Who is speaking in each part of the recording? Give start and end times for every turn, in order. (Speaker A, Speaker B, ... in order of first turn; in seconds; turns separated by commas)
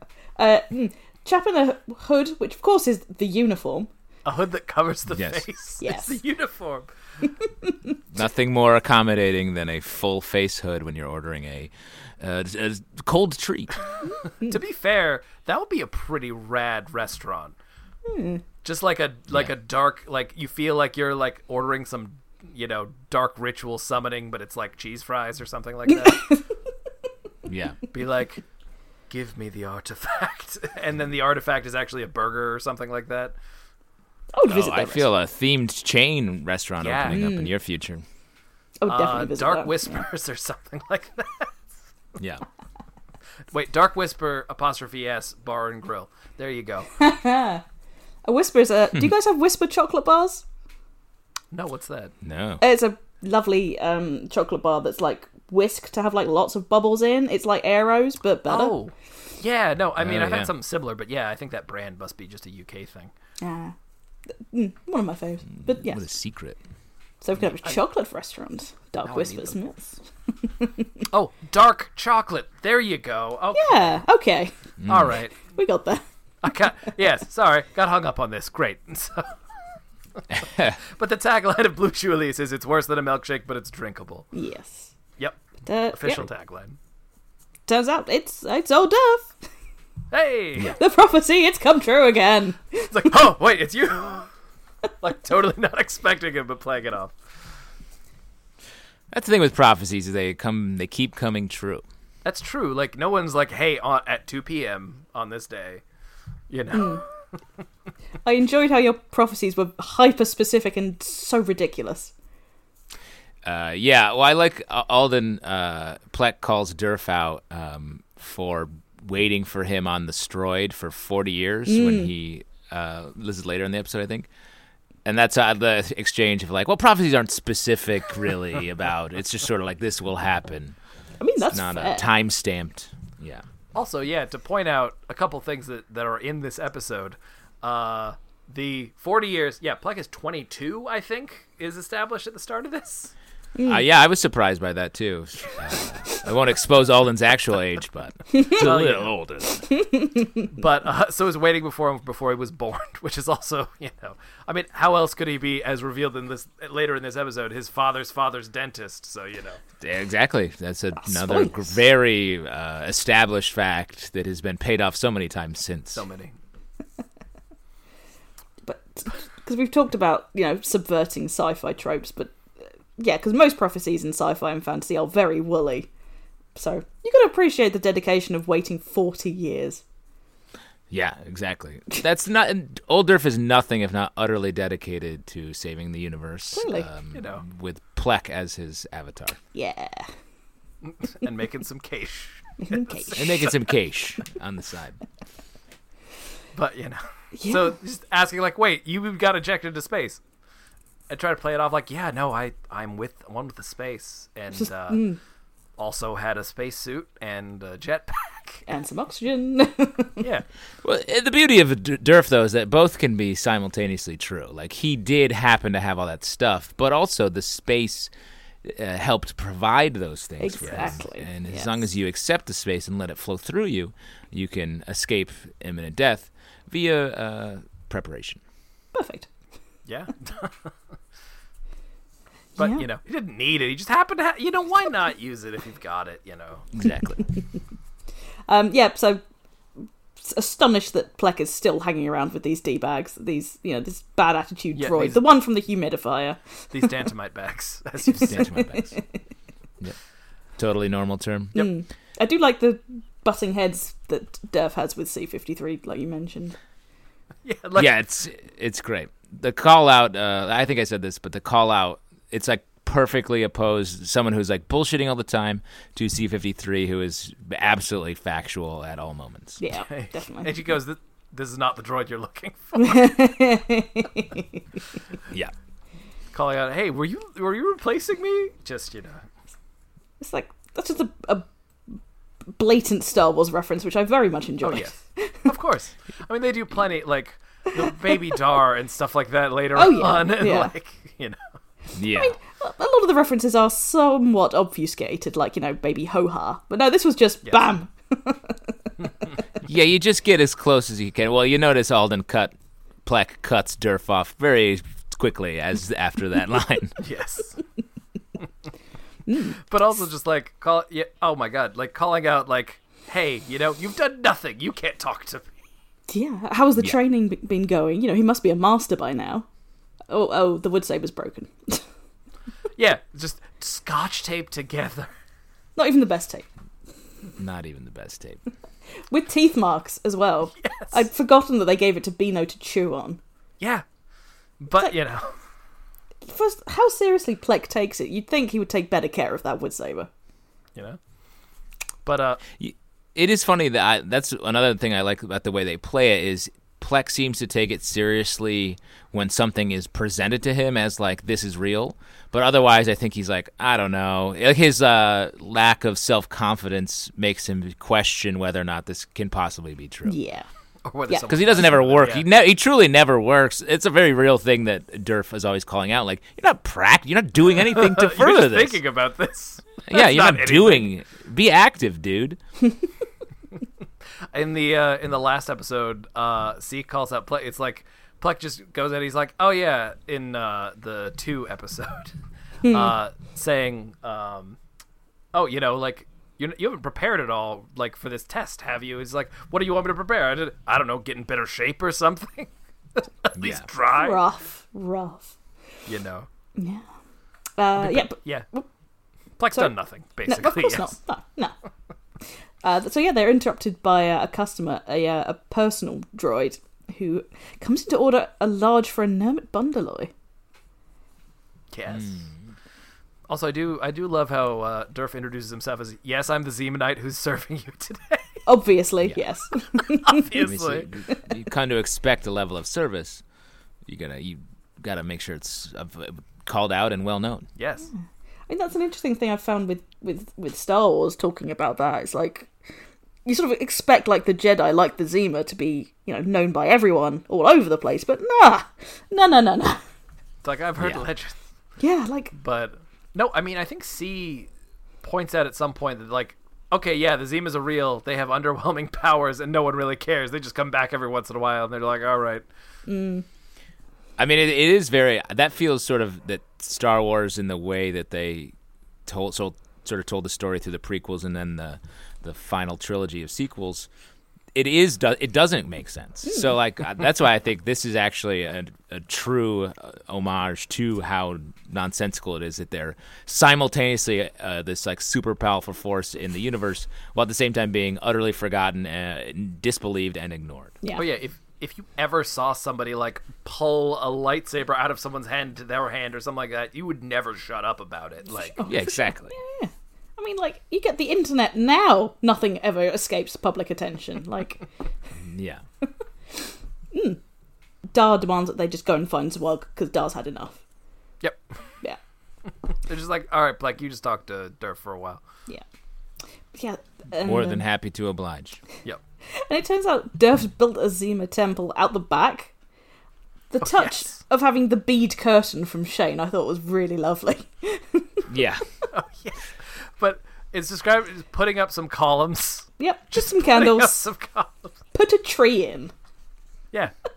Speaker A: 0.4-3.9, Speaker B: 4.2-6.9, Speaker C: 5.1-5.4, Speaker A: 5.8-6.2, Speaker C: 8.1-13.8, Speaker B: 14.5-17.6, Speaker A: 18.1-18.4, Speaker B: 18.6-26.3, Speaker A: 26.1-26.4, Speaker C: 27.5-27.8, Speaker B: 27.9-28.4, Speaker B: 29.1-33.4, Speaker A: 34.3-35.1, Speaker C: 34.5-38.0, Speaker B: 36.8-37.2, Speaker A: 37.1-37.5, Speaker A: 38.8-40.0, Speaker B: 38.9-41.6, Speaker C: 42.2-42.4, Speaker B: 43.5-46.9, Speaker A: 47.0-47.6, Speaker A: 48.2-50.4, Speaker B: 51.5-52.1, Speaker C: 52.2-52.6, Speaker A: 52.6-58.8, Speaker B: 58.5-63.1, Speaker C: 60.0-60.5, Speaker A: 63.4-63.8, Speaker A: 64.5-66.0, Speaker C: 65.6-66.6, Speaker A: 67.2-70.0, Speaker B: 69.0-69.6, Speaker A: 70.5-70.9, Speaker B: 71.1-74.0, Speaker A: 73.5-74.5, Speaker C: 74.8-75.1, Speaker B: 74.9-75.3, Speaker A: 75.4-76.0, Speaker B: 76.4-79.3, Speaker C: 80.3-80.8, Speaker B: 80.9-84.3, Speaker A: 84.3-84.9, Speaker A: 85.7-86.2, Speaker B: 85.9-86.8, Speaker A: 87.7-89.3, Speaker B: 90.1-90.8, Speaker A: 90.8-93.1, Speaker B: 92.9-94.3, Speaker B: 95.0-97.1, Speaker C: 99.1-101.8, Speaker B: 102.2-105.8, Speaker B: 106.5-107.0, Speaker A: 106.7-107.0, Speaker A: 108.2-112.1, Speaker C: 113.4-124.3, Speaker A: 121.7-122.1, Speaker C: 125.0-130.8, Speaker A: 131.2-132.1, Speaker C: 131.5-133.4, Speaker B: 133.7-143.1, Speaker A: 143.6-143.8, Speaker C: 143.7-149.7, Speaker B: 148.6-149.1, Speaker A: 149.8-150.3, Speaker B: 150.5-159.6, Speaker C: 159.8-166.0, Speaker A: 161.0-161.7, Speaker B: 165.9-166.4, Speaker A: 168.7-172.3, Speaker A: 173.0-175.9, Speaker A: 176.6-179.8, Speaker C: 180.9-189.4, Speaker A: 186.5-186.9, Speaker B: 187.1-187.4, Speaker A: 189.5-190.1, Speaker B: 190.8-193.5, Speaker A: 192.6-193.2, Speaker C: 193.2-195.0, Speaker B: 196.6-200.2, Speaker A: 197.3-197.7, Speaker B: 201.1-205.0, Speaker A: 204.6-205.2, Speaker B: 205.8-208.7, Speaker A: 208.7-210.2, Speaker B: 210.2-210.4, Speaker C: 210.8-218.1, Speaker C: 218.6-228.4, Speaker A: 220.4-221.8, Speaker B: 220.6-220.9, Speaker A: 228.9-229.3, Speaker B: 229.9-230.7, Speaker B: 232.6-236.7, Speaker A: 232.6-232.8, Speaker C: 236.7-237.3, Speaker A: 238.5-239.2, Speaker A: 240.2-246.4, Speaker B: 244.7-245.2, Speaker B: 246.7-248.5, Speaker A: 248.1-249.1, Speaker C: 248.3-249.0, Speaker C: 250.6-251.6, Speaker A: 251.6-256.6, Speaker B: 257.4-257.9, Speaker C: 257.8-269.6, Speaker A: 269.6-270.6, Speaker B: 269.9-273.1, Speaker A: 272.8-274.5, Speaker B: 276.3-279.2, Speaker A: 280.2-282.0, Speaker A: 282.6-285.5, Speaker B: 284.6-291.4, Speaker A: 289.8-290.7, Speaker C: 292.0-292.4, Speaker A: 292.1-298.6, Speaker C: 299.6-302.5, Speaker C: 303.1-307.0, Speaker B: 307.0-307.6, Speaker A: 309.3-309.6, Speaker B: 309.7-315.5, Speaker A: 316.1-319.5, Speaker A: 320.1-321.8, Speaker B: 322.8-325.1, Speaker A: 325.8-326.5, Speaker C: 327.4-328.4, Speaker A: 329.1-333.2, Speaker B: 330.6-331.0, Speaker B: 333.6-333.9, Speaker B: 334.6-335.3, Speaker A: 336.3-340.1, Speaker B: 342.1-342.4, Speaker C: 342.6-360.1, Speaker A: 360.1-360.5, Speaker B: 360.9-362.3, Speaker C: 361.3-368.8, Speaker B: 367.6-370.9, Speaker C: 369.9-372.4, Speaker B: 374.3-382.1, Speaker A: 382.6-382.9, Speaker B: 382.7-384.6, Speaker B: 385.3-394.2, Speaker C: 393.4-393.7, Speaker A: 393.9-395.3, Speaker B: 395.9-396.3, Speaker A: 396.6-396.8, Speaker A: 397.6-398.7, Speaker B: 397.8-398.5, Speaker B: 399.4-400.9, Speaker A: 400.3-401.5, Speaker A: 402.6-410.1, Speaker B: 411.7-412.3, Speaker C: 411.9-412.3, Speaker B: 413.3-418.4, Speaker A: 418.5-420.3, Speaker B: 419.9-420.9, Speaker C: 420.4-423.2, Speaker C: 423.9-427.5, Speaker B: 427.6-427.9, Speaker A: 428.5-432.5, Speaker A: 433.2-439.8, Speaker B: 440.4-441.4, Speaker C: 440.8-441.0, Speaker A: 441.8-442.3, Speaker B: 442.3-444.5, Speaker B: 445.0-452.4, Speaker A: 452.9-453.2, Speaker C: 454.2-458.5, Speaker C: 459.1-463.9, Speaker C: 464.5-480.8, Speaker B: 480.9-488.6, Speaker A: 488.4-494.6, Speaker C: 488.6-489.3, Speaker C: 495.2-495.6, Speaker A: 496.9-497.2, Speaker A: 497.9-500.6, Speaker B: 502.9-505.2, Speaker A: 506.5-507.6, Speaker C: 507.2-508.6, Speaker A: 509.3-512.5, Speaker A: 513.5-518.3, Speaker B: 513.6-514.2, Speaker C: 518.3-518.6, Speaker B: 518.9-524.7, Speaker A: 522.8-524.1, Speaker A: 524.9-525.9